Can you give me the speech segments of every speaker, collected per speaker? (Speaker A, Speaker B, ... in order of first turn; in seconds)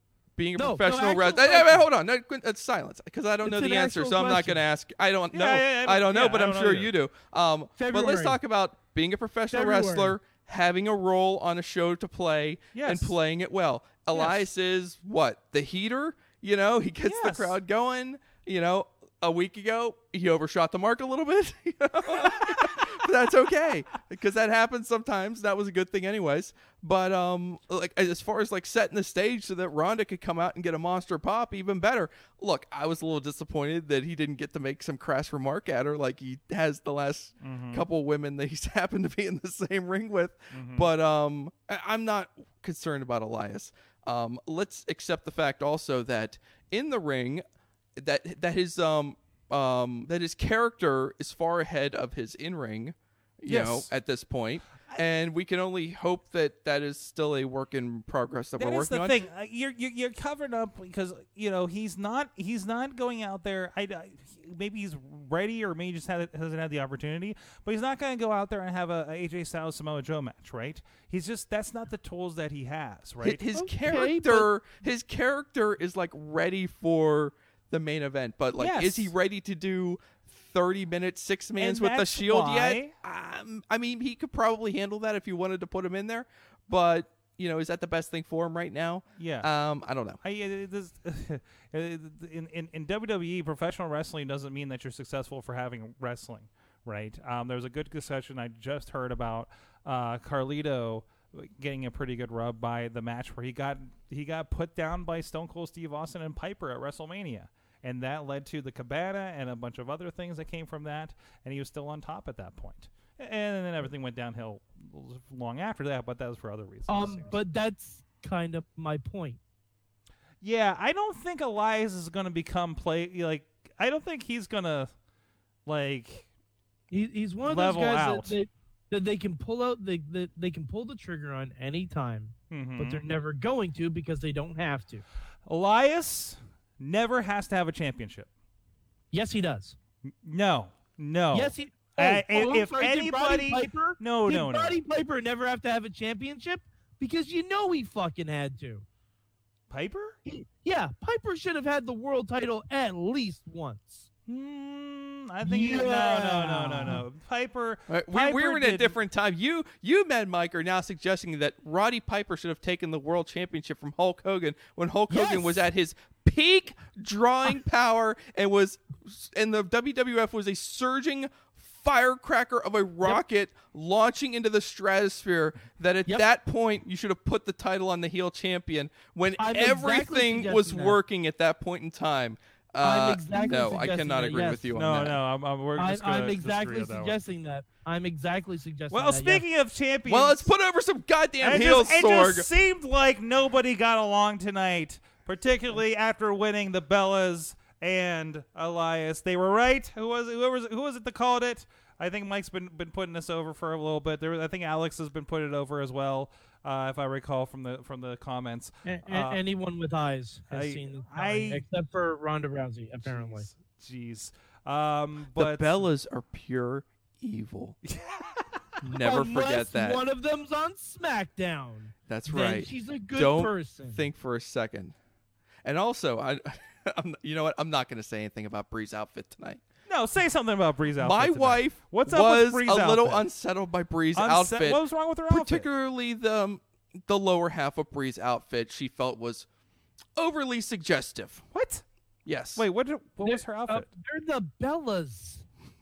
Speaker A: 0.4-47.4, 48.0-59.2, 73.2-90.2, 157.9-185.2, 190.1-192.5, 215.3-217.8, 218.8-220.0, 222.1-224.9, 225.7-229.6, 231.0-239.5, 240.2-241.5, 242.3-242.7
Speaker B: 0.6-1.9, 3.4-4.6, 7.8-8.4, 9.5-10.2, 73.5-74.5, 116.9-119.4, 126.9-135.0, 139.1-139.8, 141.3-148.8, 150.3-154.1, 155.4-157.0, 165.1-165.6, 179.4-181.0, 182.8-184.7, 185.8-189.4, 208.9-213.5, 218.8-224.1, 243.2-245.4
Speaker C: 5.3-6.9, 12.7-13.1, 17.0-17.6, 37.4-37.9, 40.5-40.9, 53.5-53.9, 58.6-73.4, 78.6-79.1, 81.6-82.9, 89.2-89.5, 90.2-117.4, 120.4-124.9, 125.7-126.3, 127.4-128.4, 132.5-133.0, 135.5-138.3, 140.2-144.8, 149.7-150.2, 154.3-158.9, 184.7-187.2, 188.9-190.5, 191.4-209.4, 210.5-211.7, 213.1-215.7, 217.9-218.6, 229.9-233.3, 234.2-235.7, 241.5-241.8, 242.6-243.9